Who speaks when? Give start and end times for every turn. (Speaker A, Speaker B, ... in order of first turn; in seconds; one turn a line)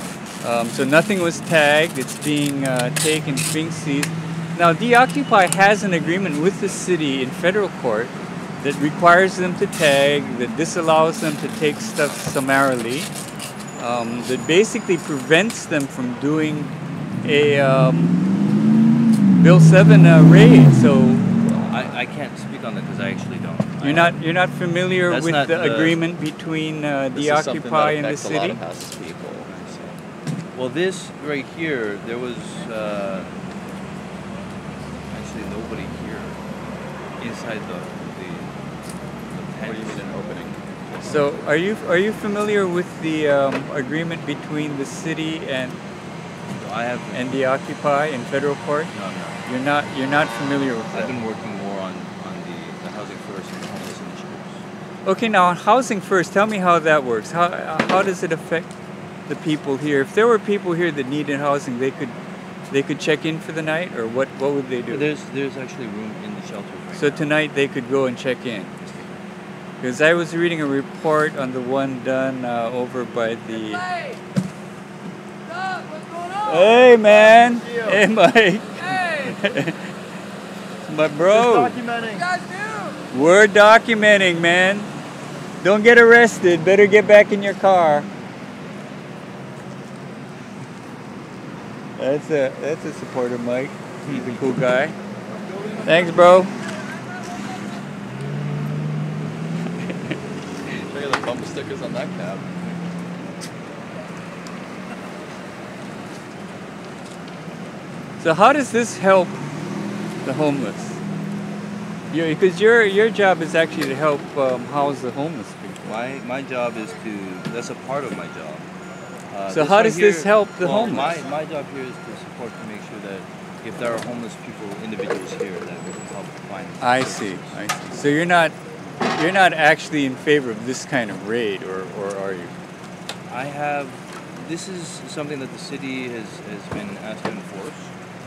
Speaker A: 0.4-13.1
Speaker A: 13.8-16.7
Speaker A: 17.2-18.2
Speaker A: 19.4-21.3
Speaker B: 21.6-24.2
Speaker A: 23.8-28.6
Speaker B: 25.1-26.0
Speaker C: 27.1-29.5
Speaker B: 28.8-29.8
Speaker B: 30.5-33.3
Speaker B: 35.1-36.4
Speaker B: 37.2-38.5
Speaker B: 39.3-40.1
Speaker C: 39.6-40.6
Speaker A: 41.0-45.8
Speaker B: 46.5-47.3
Speaker A: 47.1-48.9
Speaker B: 48.9-49.4
Speaker A: 49.5-51.2
Speaker B: 50.9-54.6
Speaker A: 55.0-58.8
Speaker A: 59.3-62.2
Speaker A: 62.7-65.1
Speaker B: 64.9-67.3
Speaker A: 67.0-68.7
Speaker A: 69.8-73.9
Speaker A: 76.4-79.9
Speaker C: 76.9-78.0
Speaker A: 80.9-81.8
Speaker C: 81.2-82.3
Speaker A: 83.1-84.9
Speaker A: 85.6-88.1
Speaker A: 92.0-95.0
Speaker A: 95.8-96.5
Speaker C: 100.9-102.5
Speaker A: 108.2-109.4
Speaker A: 110.2-111.0
Speaker A: 112.1-115.9
Speaker B: 115.8-118.7
Speaker B: 119.3-127.6
Speaker A: 119.5-121.2
Speaker A: 126.8-132.5
Speaker B: 133.3-137.9